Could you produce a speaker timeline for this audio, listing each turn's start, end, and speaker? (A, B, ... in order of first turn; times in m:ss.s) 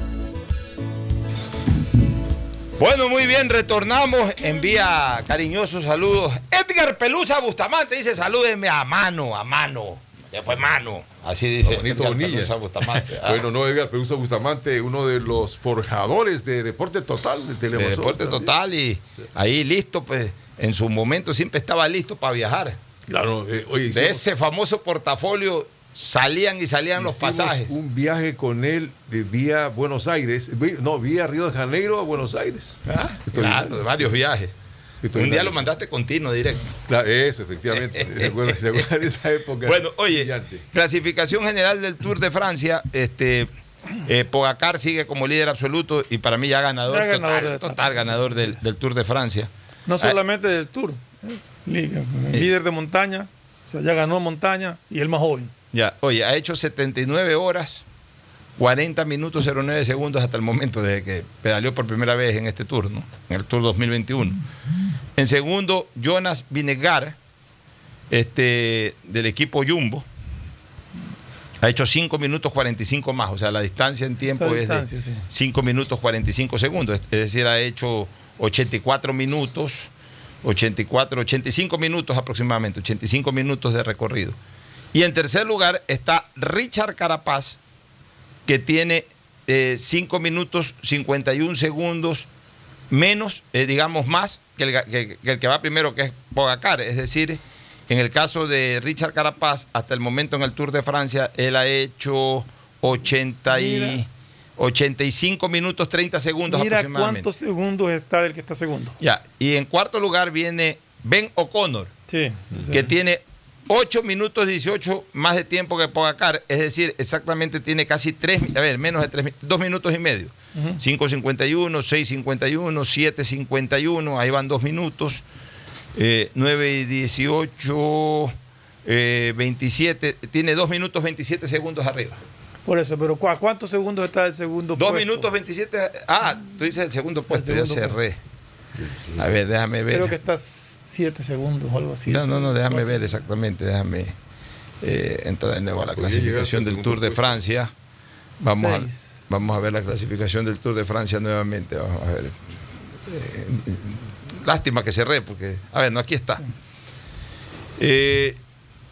0:02.8-0:13.5 A
0:11.6-0:18.5 B
0:17.7-0:22.8 A
0:23.1-0:24.2 B
0:23.9-0:27.7 A
0:27.0-0:34.1 B
0:32.8-0:34.5 A
0:35.0-0:35.7 B
0:35.1-0:36.7 A
0:36.9-0:40.6 B
0:37.7-0:38.9 A
0:39.6-0:43.5 A
0:44.0-0:50.2 A
0:46.9-0:48.6 C
0:49.9-0:55.5 C
0:55.7-0:57.8 A
0:58.6-1:04.4 A
1:05.2-1:07.2 A
1:08.1-1:10.0 A
1:11.6-1:19.9 A
1:14.2-1:15.3 C
1:20.4-1:24.4 A
1:24.9-1:27.6 A
1:28.4-1:32.3 A
1:32.9-1:47.3 A
1:43.5-1:44.0 C
1:46.5-1:49.0 C
1:49.0-1:51.9 A
1:52.1-1:52.8 C
1:52.7-2:05.2 A
2:00.5-2:00.8 C
2:05.9-2:08.3 A
2:08.8-2:12.2 A
2:12.6-2:15.3 C
2:14.8-2:18.2 A
2:17.3-2:18.0 C
2:19.2-2:20.1 A
2:19.9-2:23.2 C
2:22.1-2:24.1 A
2:24.8-2:27.7 A
2:25.9-2:27.4 B
2:28.4-2:32.4 A
2:28.5-2:29.0 C
2:33.0-2:36.4 A
2:37.8-2:38.4 A